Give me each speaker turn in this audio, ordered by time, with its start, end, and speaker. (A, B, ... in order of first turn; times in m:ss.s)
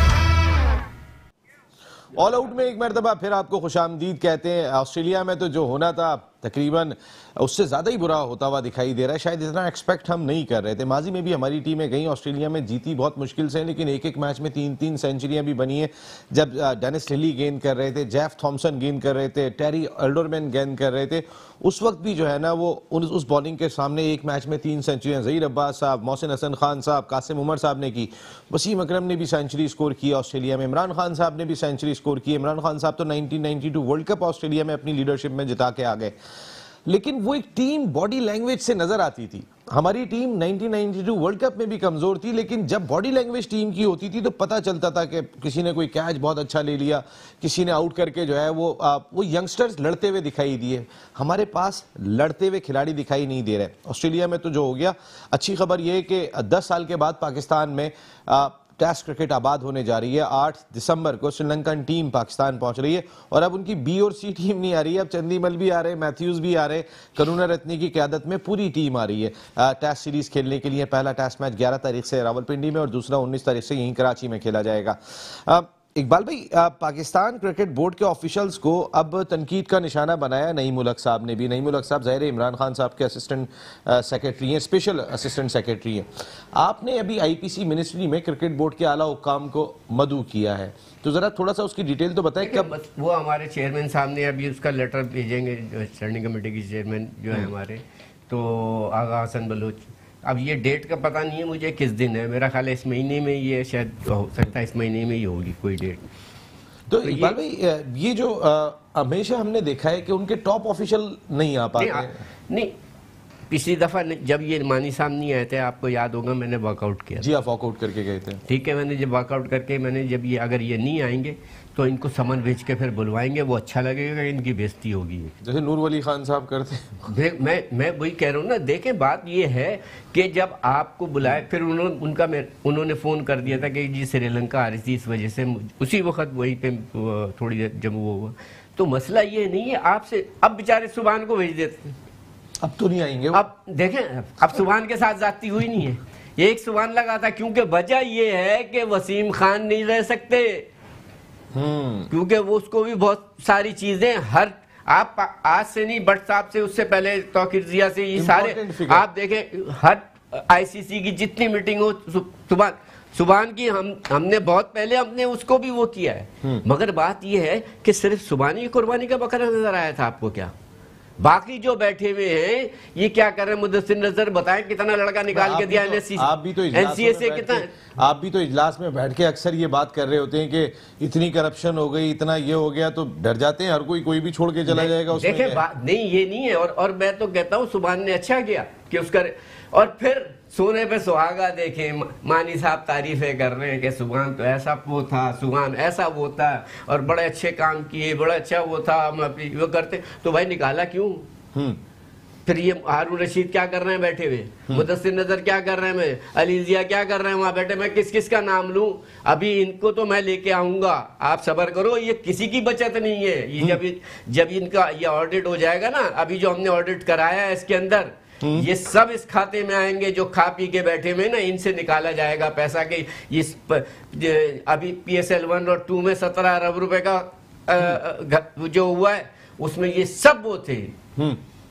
0:02.2-0:36.1 A
0:36.9-1:32.7 A
1:32.4-1:46.1 B
1:46.9-1:52.2 A
1:47.0-1:47.4 B
1:51.8-1:52.8 B
1:53.5-1:57.3 B
1:57.2-1:58.4 A
1:58.5-2:05.4 B
2:05.4-2:07.1 A
2:07.1-2:22.0 B
2:22.6-2:23.4 A
2:23.3-2:30.7 B
2:31.5-2:32.1 A
2:32.1-2:50.5 B
2:38.2-2:39.0 A
2:51.2-2:57.7 B
2:55.3-3:05.6 A
3:04.7-3:21.3 B
3:22.5-3:51.0 B